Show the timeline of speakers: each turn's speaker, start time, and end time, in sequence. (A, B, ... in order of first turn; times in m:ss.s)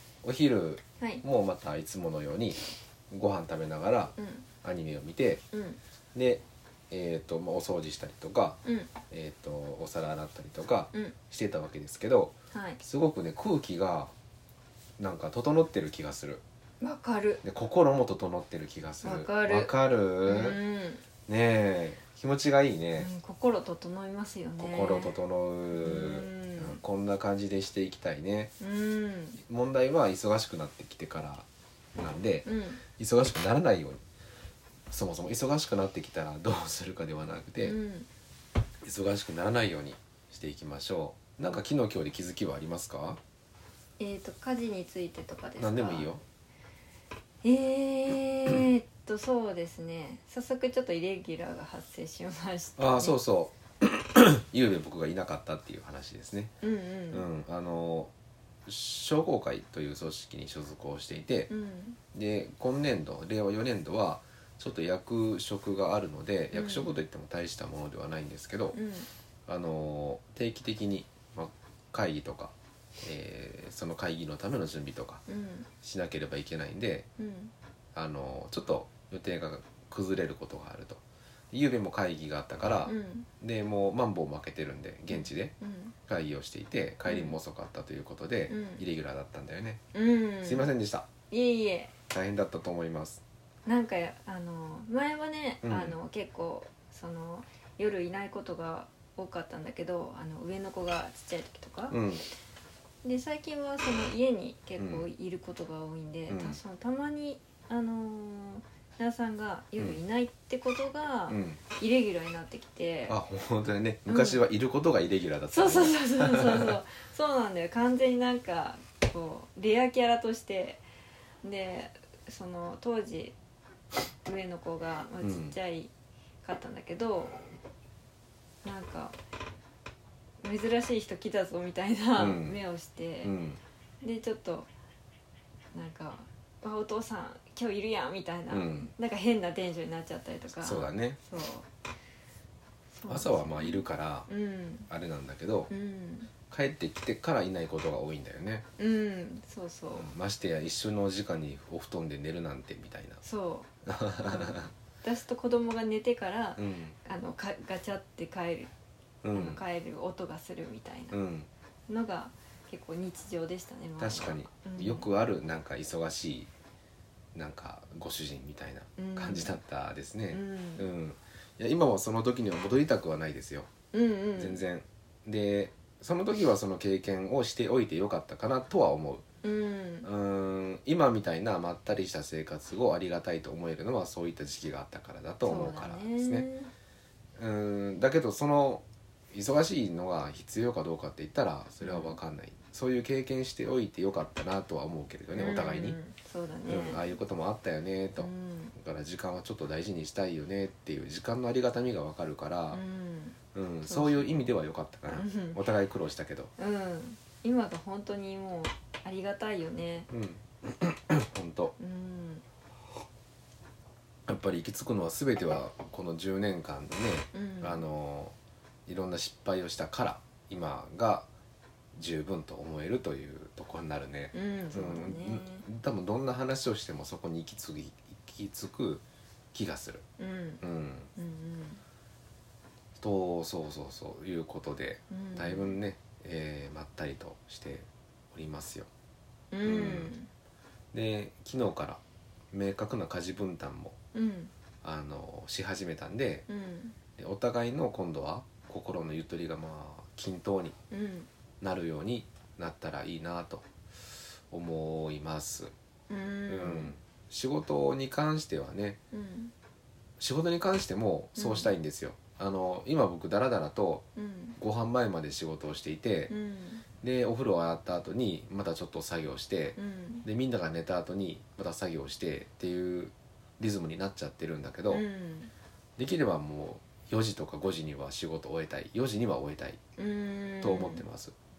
0:00.2-0:05.4 A
0:04.2-0:04.4 B
0:05.5-0:05.8 B
0:06.1-0:14.1 A
0:08.6-0:08.9 B
0:12.5-0:12.8 B
0:15.0-0:16.4 A
0:16.8-0:17.4 B
0:17.4-0:20.6 A
0:19.0-0:19.7 B
0:20.2-0:21.0 B
0:21.3-0:23.1 A
0:23.0-0:25.2 B
0:24.6-0:28.5 A
0:25.8-0:26.8 B
0:28.6-0:29.4 B
0:29.4-0:34.0 A
0:32.4-0:32.8 B
0:34.9-0:37.8 A
0:37.6-0:38.1 B
0:38.8-0:43.2 A
0:44.0-0:46.1 B
0:45.6-0:46.2 A
0:47.4-0:53.2 B
0:52.8-0:56.5 A
0:56.6-0:57.3 B
0:57.1-0:58.1 A
0:58.7-1:01.5 A
1:01.5-1:02.0 B
1:02.1-1:08.8 A
1:06.5-1:06.9 B
1:08.7-1:09.1 B
1:09.5-1:15.2 A
1:15.3-1:15.7 B
1:15.8-1:17.1 A
1:17.2-1:17.5 B
1:18.0-1:25.5 A
1:22.8-1:23.3 B
1:25.1-1:26.0 B
1:26.1-1:29.8 A
1:27.0-1:27.4 B
1:28.5-1:28.8 B
1:29.9-1:30.7 B
1:30.4-1:31.1 A
1:31.3-1:31.9 B
1:32.1-1:33.2 A
1:33.7-1:42.0 B
1:35.6-1:36.0 A
1:41.9-1:42.3 A
1:43.0-1:53.2 B
1:44.8-1:45.1 A
1:46.3-1:46.6 A
1:51.3-1:51.6 A
1:53.1-1:56.8 A
1:54.1-1:54.4 B
1:55.5-2:00.8 B
2:01.4-2:03.4 B
2:04.2-2:05.9 B
2:05.2-2:05.6 A
2:06.4-2:07.5 B
2:08.6-2:09.2 B
2:10.4-2:13.3 B
2:12.2-2:12.6 A
2:13.2-2:13.6 A
2:14.0-2:14.7 B
2:15.7-2:21.7 B
2:18.5-2:18.9 A
2:20.6-2:21.2 A
2:22.9-2:24.9 B
2:23.1-2:24.3 A
2:24.9-2:25.7 A
2:25.7-2:26.3 B
2:26.5-2:28.6 A
2:28.8-2:30.1 B
2:30.0-2:33.2 A
2:33.2-2:33.7 B
2:33.9-2:34.7 A
2:34.2-2:38.7 B
2:36.6-2:37.0 A
2:39.2-2:39.6 A
2:39.3-2:41.2 B
2:41.1-2:41.5 A
2:41.9-2:45.1 B
2:44.0-2:46.5 A
2:47.4-2:53.7 A
2:49.0-2:49.6 B
2:50.3-2:50.9 B
2:53.9-2:54.6 B
2:54.4-2:59.2 A
2:59.4-3:00.1 B
3:00.0-3:06.5 A
3:05.4-3:06.7 B
3:07.4-3:16.0 A
3:11.8-3:12.2 B
3:15.3-3:17.2 B
3:16.7-3:22.8 A
3:18.2-3:18.8 B
3:22.7-3:24.5 B
3:23.5-3:26.5 A
3:25.1-3:25.6 B
3:26.6-3:30.1 B
3:30.1-3:31.7 A
3:31.8-3:32.4 B
3:34.3-3:38.4 A
3:37.3-3:37.8 B
3:38.9-3:41.3 A
3:41.9-3:50.0 A
3:44.3-3:45.6 B
3:50.2-3:50.6 B
3:50.6-3:51.1 A
3:51.2-3:51.8 B
3:53.0-3:58.9 A
3:55.1-3:55.8 B
3:59.5-4:00.3 B
3:59.6-4:00.1 A
4:00.9-4:02.0 A
4:02.5-4:04.0 A
4:04.1-4:04.5 B
4:04.8-4:06.5 A
4:06.5-4:07.0 B
4:07.2-4:10.8 A
4:10.9-4:11.3 B
4:11.6-4:13.7 A
4:14.5-4:15.7 A
4:16.1-4:16.9 B
4:16.5-4:19.0 A
4:19.1-4:19.5 B
4:20.2-4:24.0 A
4:21.4-4:21.7 B
4:24.2-4:24.6 B
4:24.6-4:26.3 A
4:26.3-4:26.8 B
4:27.0-4:35.0 A
4:29.8-4:30.3 B
4:34.9-4:35.5 B
4:36.0-4:39.8 A
4:40.0-4:41.0 B
4:40.6-4:41.3 A